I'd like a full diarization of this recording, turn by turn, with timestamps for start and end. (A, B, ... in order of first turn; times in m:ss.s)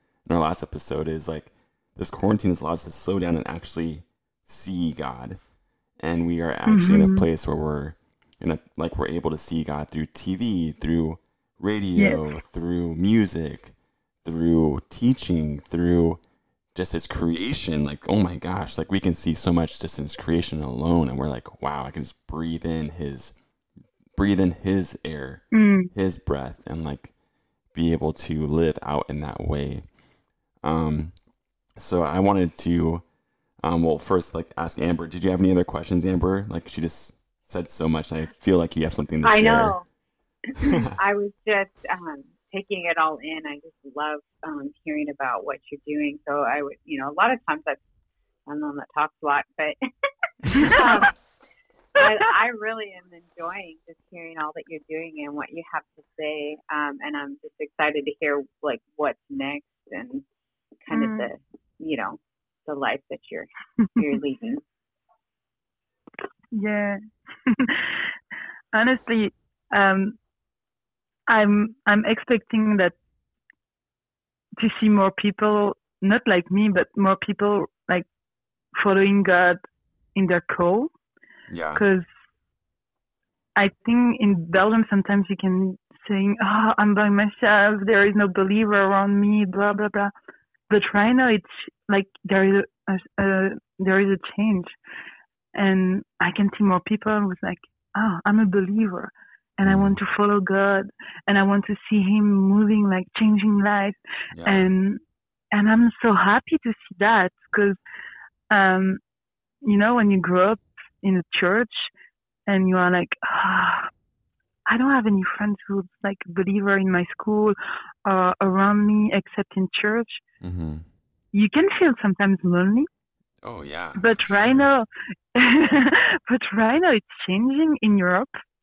0:00.2-0:05.4 A
0:06.0-0:16.2 A
0:06.7-0:07.2 B
0:12.0-0:12.2 B
0:16.7-0:23.3 A
0:24.2-0:27.1 A
0:25.5-0:25.9 B
0:27.7-0:29.8 A
0:30.6-0:31.1 A
0:31.8-0:33.0 A
0:33.6-0:39.8 A
0:39.2-0:39.8 C
0:40.6-0:47.8 C
0:40.6-0:41.0 A
0:48.5-0:49.8 C
0:50.4-0:50.8 A
0:50.5-0:50.8 B
0:50.5-0:51.2 C
0:52.0-1:00.2 C
1:00.8-1:04.6 C
1:00.9-1:01.3 B
1:06.5-1:08.1 B
1:08.7-1:10.2 B
1:11.3-1:12.9 B
1:14.6-1:18.1 B
1:18.8-1:19.6 B
1:20.1-1:20.9 B
1:21.5-1:21.8 A
1:21.8-1:22.1 B
1:23.6-1:30.1 B
1:30.7-1:34.7 B
1:35.5-1:45.0 B
1:39.6-1:40.0 A
1:44.3-1:44.7 A
1:45.5-1:47.8 B
1:48.5-1:49.0 B
1:49.6-1:51.9 B
1:52.5-1:53.9 B
1:54.7-2:00.2 B
2:00.4-2:00.8 A
2:01.3-2:02.9 B
2:03.4-2:04.7 A
2:04.0-2:08.3 B